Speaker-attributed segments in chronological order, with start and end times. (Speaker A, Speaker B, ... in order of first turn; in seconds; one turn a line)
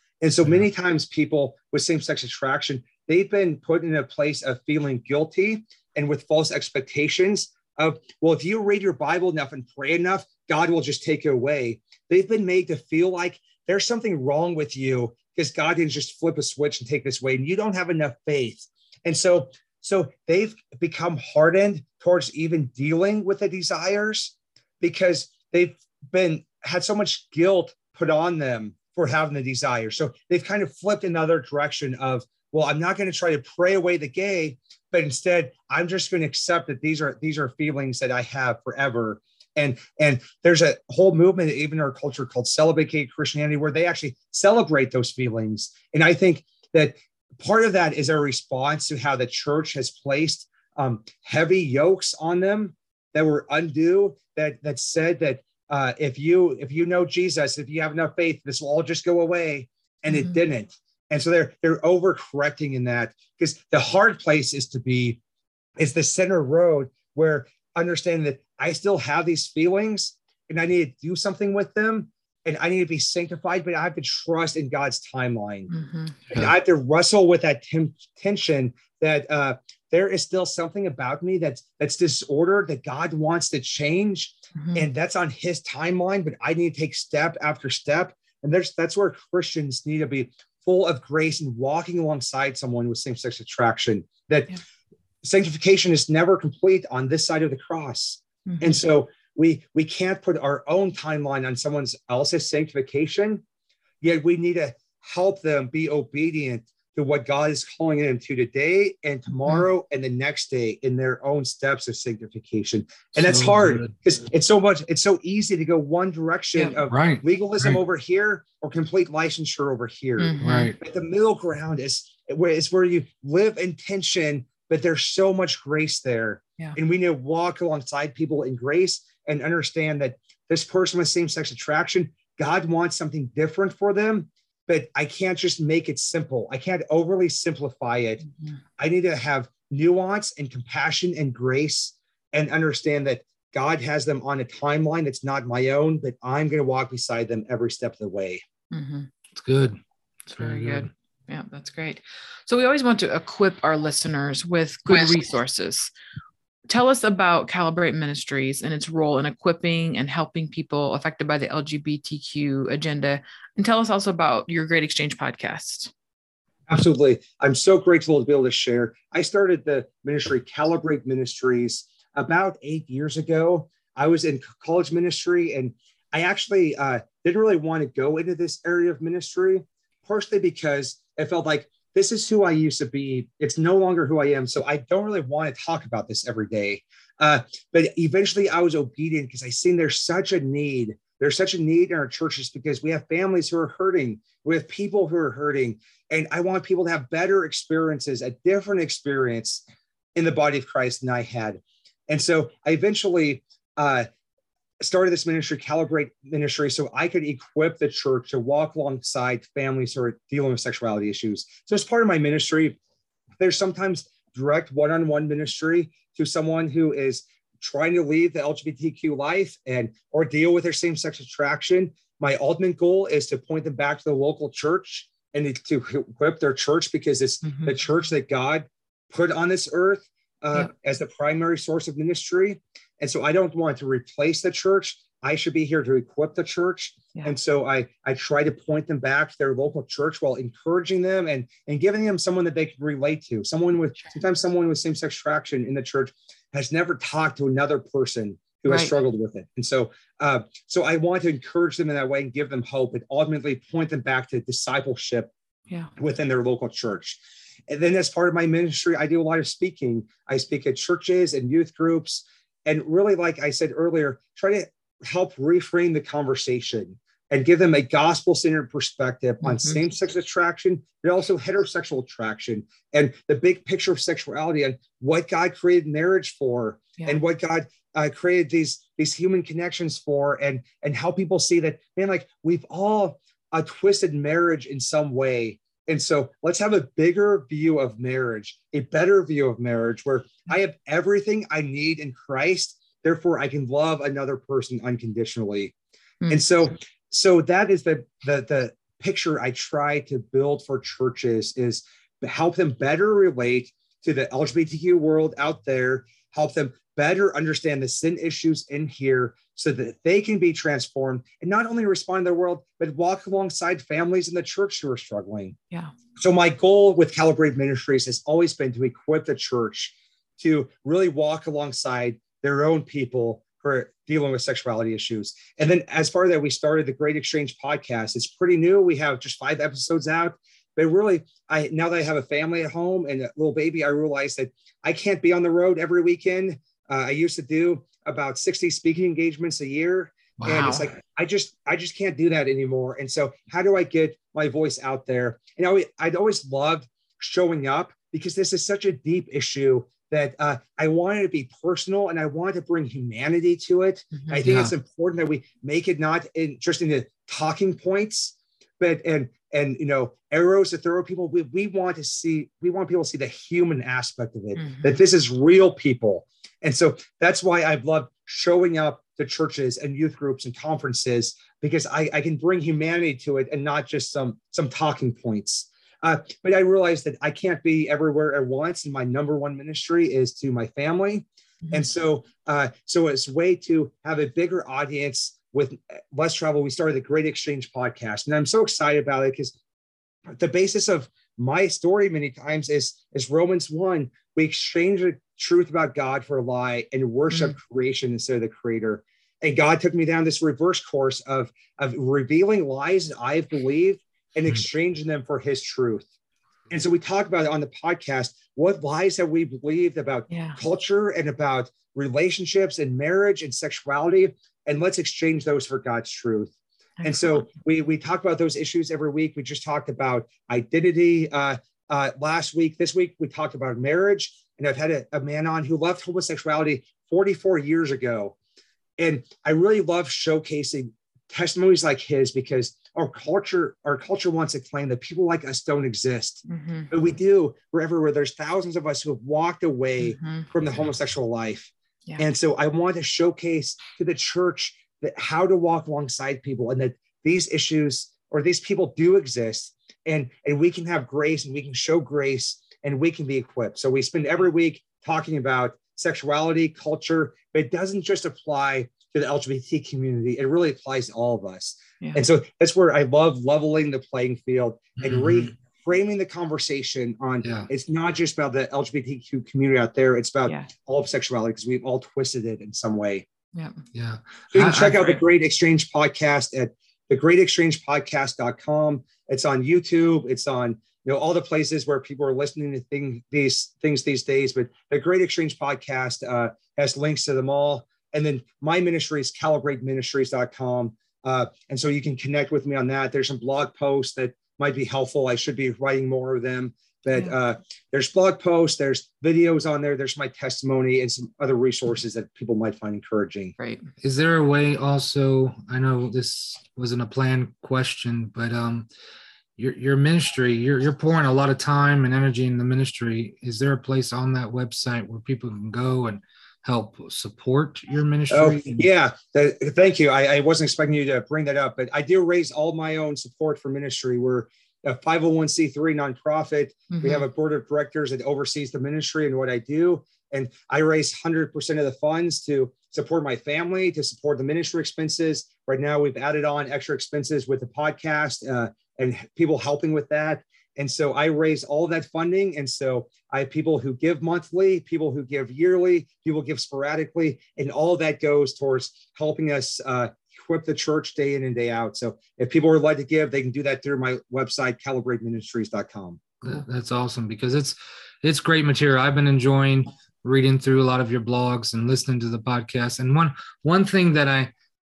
Speaker A: 0.2-65.2
Speaker A: 65.8-75.7
Speaker B: 75.7-76.2
Speaker A: 76.3-94.5
Speaker B: 84.6-84.8
Speaker A: 95.2-103.4
Speaker B: 98.5-98.8
Speaker A: 104.0-138.2
Speaker C: 113.2-113.9
Speaker C: 116.8-117.8
Speaker B: 120.2-120.7
Speaker C: 120.4-120.8
Speaker A: 138.8-148.4
Speaker B: 148.7-149.1
Speaker C: 149.3-150.9
Speaker B: 150.3-155.9
Speaker B: 156.7-165.9
Speaker A: 166.7-199.6
Speaker A: 200.1-204.1
Speaker A: 204.8-212.8
Speaker A: 213.4-255.3
Speaker B: 227.4-227.8
Speaker B: 248.7-248.9
Speaker A: 256.0-295.7
Speaker B: 269.4-269.8
Speaker A: 296.3-315.6
Speaker A: 316.2-389.5
Speaker B: 340.4-340.9
Speaker B: 354.1-354.4
Speaker C: 354.4-354.7
Speaker B: 364.6-364.9
Speaker A: 390.3-406.1
Speaker A: 406.7-416.5
Speaker B: 410.3-410.6
Speaker B: 417.0-417.5
Speaker A: 417.0-428.4
Speaker A: 429.0-473.2
Speaker B: 436.5-436.9
Speaker B: 440.0-440.5
Speaker C: 465.0-465.5
Speaker C: 467.4-467.7
Speaker C: 473.9-475.0
Speaker A: 474.5-503.5
Speaker B: 503.6-503.9
Speaker C: 504.0-508.9
Speaker C: 509.6-518.9
Speaker A: 518.3-556.2
Speaker B: 526.9-527.2
Speaker C: 556.4-564.5